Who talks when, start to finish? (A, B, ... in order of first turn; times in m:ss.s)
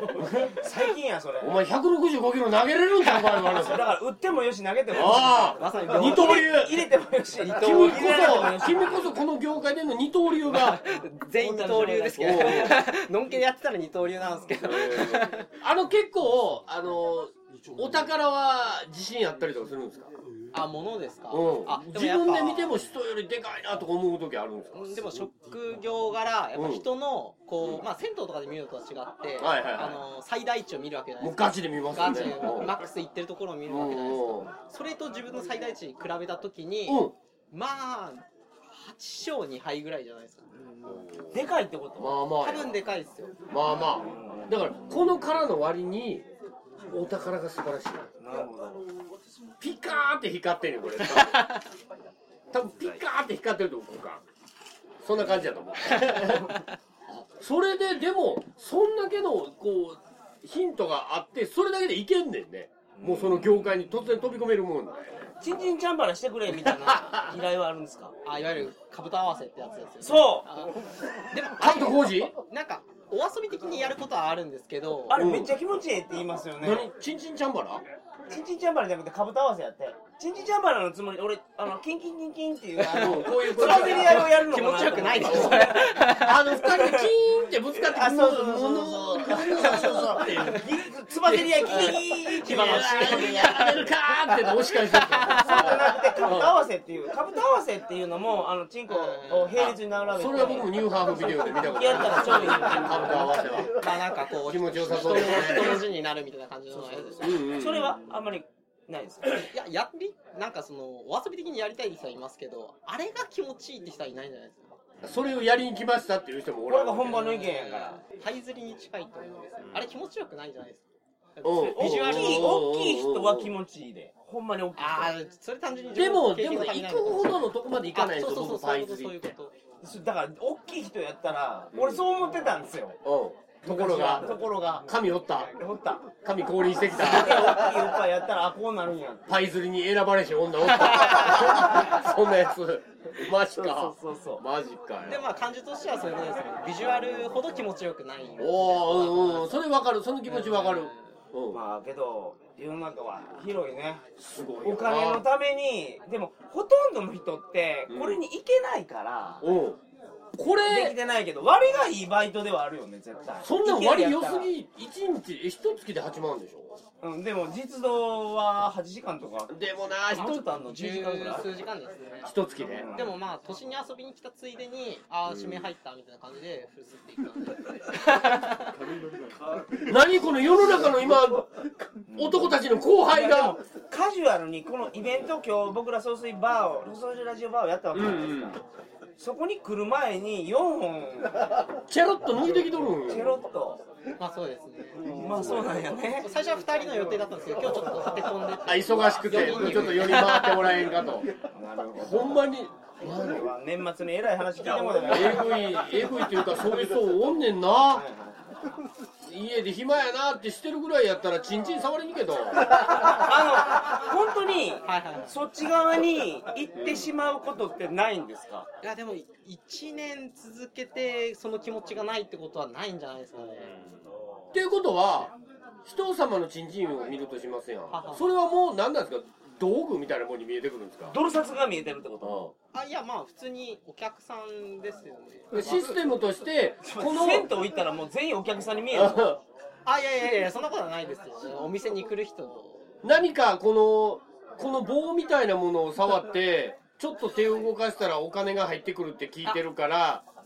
0:00.1-0:00.6 A
0:00.3-0:01.6 B
0:01.4-0:03.9 A
0:03.0-0:03.6 C
0:03.6-0:09.1 B
0:04.9-0:06.8 A
0:05.0-0:06.8 C
0:07.4-0:08.5 C
0:07.5-0:10.8 A
0:10.5-0:15.5 C
0:11.2-0:12.8 B
0:12.2-0:12.8 A
0:14.5-0:20.1 A
0:20.5-0:22.8 C
0:21.3-0:25.1 A
0:24.7-0:40.4 C
0:26.6-0:26.8 A
0:27.6-0:27.8 A
0:29.4-0:30.0 A
0:31.2-0:32.8 A
0:33.7-0:34.5 A
0:36.9-0:37.1 A
0:41.0-0:41.4 A
0:41.3-0:42.2 B
0:42.0-0:42.8 A
0:42.4-0:43.4 C
0:43.5-0:46.2 A
0:43.8-0:44.7 B
0:46.9-0:48.1 A
0:48.2-0:48.9 B
0:49.6-0:51.5 A
0:51.1-0:51.6 C
0:52.5-0:54.2 A
0:55.0-0:56.6 A
0:57.2-1:05.3 A
1:03.0-1:03.5 B
1:05.4-1:08.1 B
1:06.6-1:07.2 A
1:08.2-1:15.3 C
1:10.0-1:10.5 B
1:11.6-1:12.3 A
1:15.1-1:16.9 B
1:15.1-1:15.5 A
1:16.6-1:17.8 A
1:18.3-1:27.1 B
1:22.8-1:26.5 C
1:22.9-1:24.4 A
1:25.2-1:30.7 A
1:27.7-1:33.6 B
1:29.5-1:30.6 C
1:31.3-1:35.7 C
1:32.4-1:36.5 A
1:35.4-1:43.3 B
1:38.9-1:39.8 C
1:40.1-1:45.9 A
1:40.3-1:40.6 C
1:41.8-1:47.4 C
1:46.7-1:49.5 B
1:47.2-1:48.0 A
1:49.5-1:54.8 C
1:55.0-1:57.2 A
1:56.7-1:58.0 B
1:57.1-2:00.8 C
2:01.4-2:02.6 C
2:01.4-2:03.6 A
2:01.6-2:05.1 B
2:04.8-2:07.4 C
2:05.9-2:09.3 A
2:07.9-2:09.6 C
2:09.8-2:13.0 B
2:11.7-2:12.1 A
2:13.0-2:15.5 A
2:13.6-2:16.0 B
2:16.2-2:17.7 A
2:16.9-2:19.3 B
2:19.3-2:25.3 A
2:23.4-2:24.4 B
2:25.1-2:29.6 C
2:26.8-2:27.4 A
2:28.4-2:31.6 A
2:30.3-2:31.0 C
2:31.5-2:34.0 B
2:34.2-2:35.2 A
2:34.6-2:39.4 B
2:37.9-2:38.2 A
2:39.4-2:39.8 A
2:40.4-2:41.0 A
2:40.6-2:44.5 B
2:43.4-2:46.8 A
2:47.0-2:49.6 B
2:49.5-2:50.4 A
2:50.1-2:51.5 B
2:50.2-2:52.3 C
2:52.2-2:52.9 A
2:52.7-2:53.1 B
2:52.9-2:58.8 C
2:55.3-2:55.7 A
2:59.9-3:01.5 A
3:02.1-3:08.6 B
3:02.2-3:03.6 A
3:07.9-3:08.6 A
3:09.2-3:11.6 B
3:11.9-3:13.4 A
3:12.9-3:13.8 B
3:14.2-3:20.8 C
3:15.0-3:16.3 B
3:15.1-3:15.8 A
3:18.6-3:21.3 A
3:19.3-3:20.2 B
3:21.5-3:22.4 B
3:22.0-3:23.5 A
3:23.0-3:25.8 B
3:25.1-3:28.0 A
3:27.9-3:28.4 B
3:29.2-3:33.2 A
3:32.8-3:38.7 B
3:34.8-3:35.3 C
3:36.8-3:37.1 A
3:38.8-3:43.7 C
3:44.5-3:45.3 A
3:45.8-3:51.2 A
3:47.9-3:48.3 C
3:51.1-3:52.4 B
3:52.2-3:52.5 A
3:52.7-3:55.9 C
3:55.5-3:57.5 A
3:56.8-3:59.4 B
3:58.9-3:59.4 A
3:59.9-4:02.9 C
4:03.0-4:10.2 A